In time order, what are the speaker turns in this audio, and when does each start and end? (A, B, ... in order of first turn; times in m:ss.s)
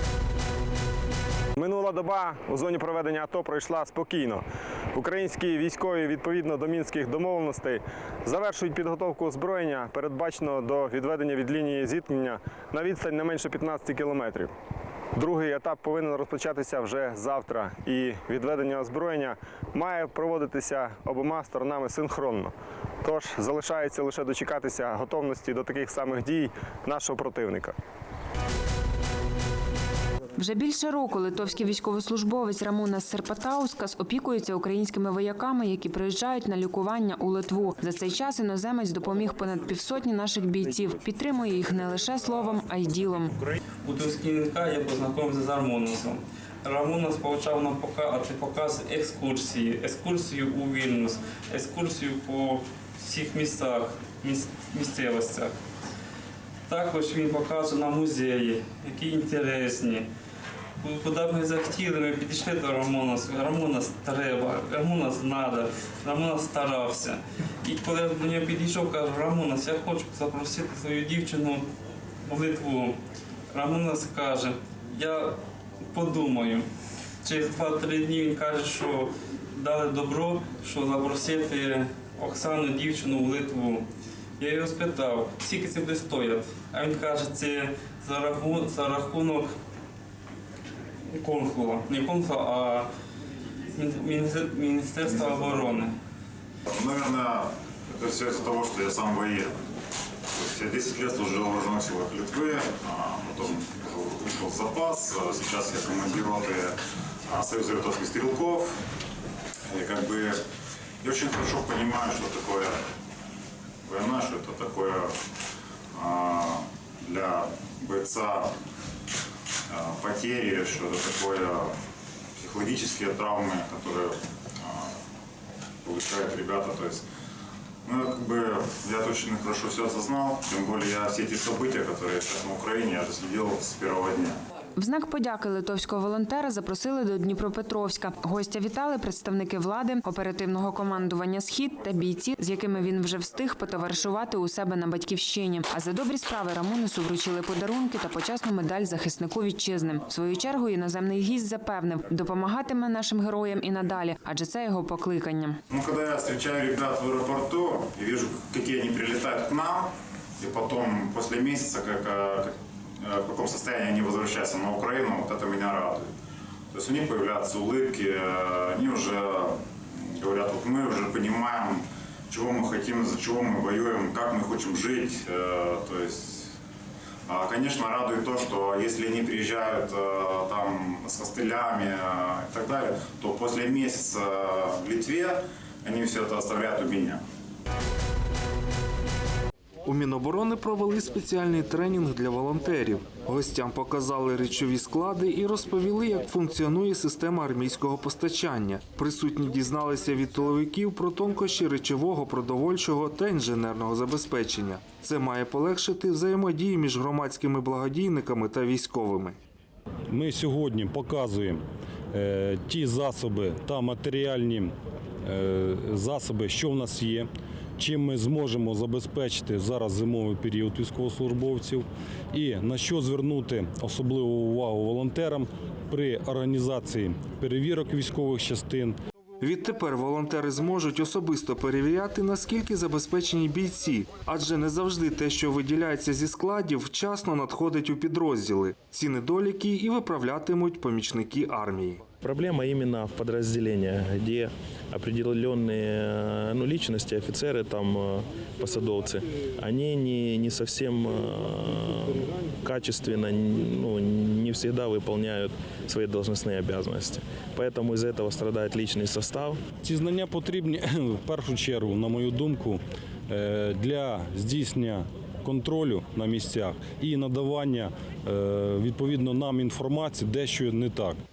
0:01.7-0:04.4 A
0:05.2-0:07.6 A
0:10.1-0:12.2 A
0:15.4-0:16.4 A
0:17.7-0:19.0 A
0:23.3-0:23.6 A
0:30.4-0:43.3 B
0:43.8-0:55.5 C
0:56.7-1:00.1 C
1:00.8-1:11.6 C
1:12.3-1:13.0 C
1:13.5-1:15.4 C
1:15.9-1:16.7 C
1:17.2-1:23.8 C
1:24.4-1:29.5 C
1:31.2-1:32.9 C
1:33.8-1:35.9 C
1:36.7-1:39.6 D
1:40.4-1:46.8 D
1:47.3-1:48.8 D
1:49.7-1:50.4 D
1:51.0-1:52.8 D
1:53.8-1:55.1 D
1:56.0-1:58.5 D
1:59.7-2:01.7 D
2:02.4-2:04.9 D
2:05.8-2:07.0 D
2:07.8-2:14.4 D
2:14.8-2:35.6 B
2:35.7-2:46.1 D
2:46.7-2:56.5 D
2:57.3-3:07.2 D
3:09.8-3:29.4 E
3:30.1-3:49.0 F
3:49.4-4:02.0 E
4:02.2-4:19.6 G
4:19.8-4:31.2 F